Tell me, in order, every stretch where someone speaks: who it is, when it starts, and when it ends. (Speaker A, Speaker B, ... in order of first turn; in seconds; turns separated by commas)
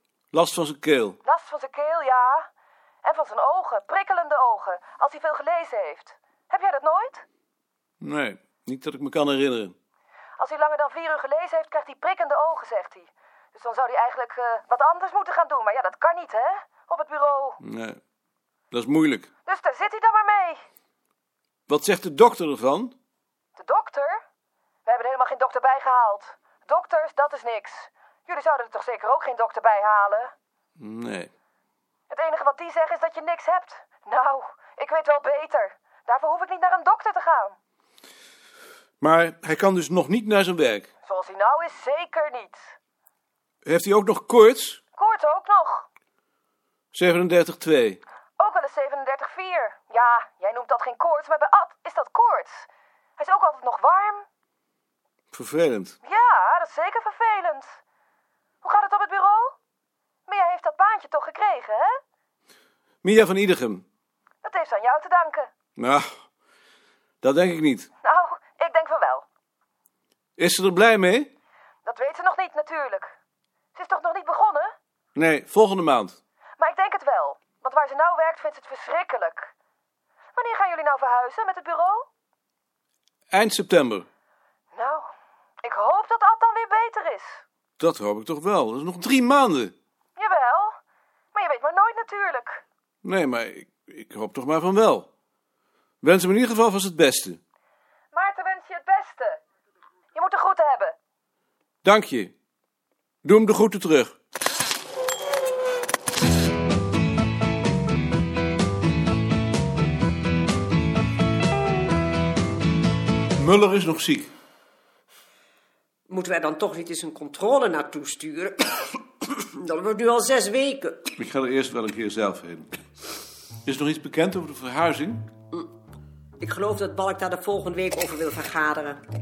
Speaker A: 0.3-1.2, Speaker B: 1.2-2.5, Speaker B: 3.0-7.2, Speaker A: 8.0-9.7, Speaker B: 10.4-17.6, Speaker A: 17.6-18.0, Speaker A: 18.7-19.3, Speaker B: 19.4-20.6, Speaker A: 21.7-22.9, Speaker B: 23.6-24.2, Speaker B: 24.9-30.3, Speaker A: 30.8-31.3, Speaker B: 32.1-37.5, Speaker A: 39.0-40.9, Speaker B: 41.0-42.7, Speaker A: 43.6-44.8, Speaker B: 45.0-45.9, Speaker A: 46.9-48.0, Speaker B: 48.4-54.2, Speaker A: 55.3-56.0, Speaker B: 56.0-57.7, Speaker B: 58.6-59.5, Speaker B: 60.2-62.0, Speaker A: 63.0-63.8, Speaker B: 64.4-65.5, Speaker A: 65.8-66.1, Speaker A: 67.2-67.9, Speaker B: 68.0-69.2, Speaker A: 70.4-71.3, Speaker B: 71.8-73.2, Speaker B: 73.7-74.7, Speaker A: 75.2-76.2, Speaker B: 76.6-79.5, Speaker B: 80.3-82.1, Speaker A: 83.3-84.1, Speaker B: 84.7-85.1, Speaker B: 85.6-87.4, Speaker A: 87.8-89.7, Speaker B: 90.2-90.8, Speaker B: 91.3-92.6, Speaker A: 93.0-95.1, Speaker A: 96.0-97.4, Speaker B: 98.1-99.4, Speaker B: 100.1-101.0, Speaker A: 101.8-102.3, Speaker A: 103.2-104.1, Speaker A: 113.4-114.3, Speaker C: 116.1-121.1, Speaker A: 121.2-122.7, Speaker A: 123.6-125.3, Speaker C: 126.4-129.0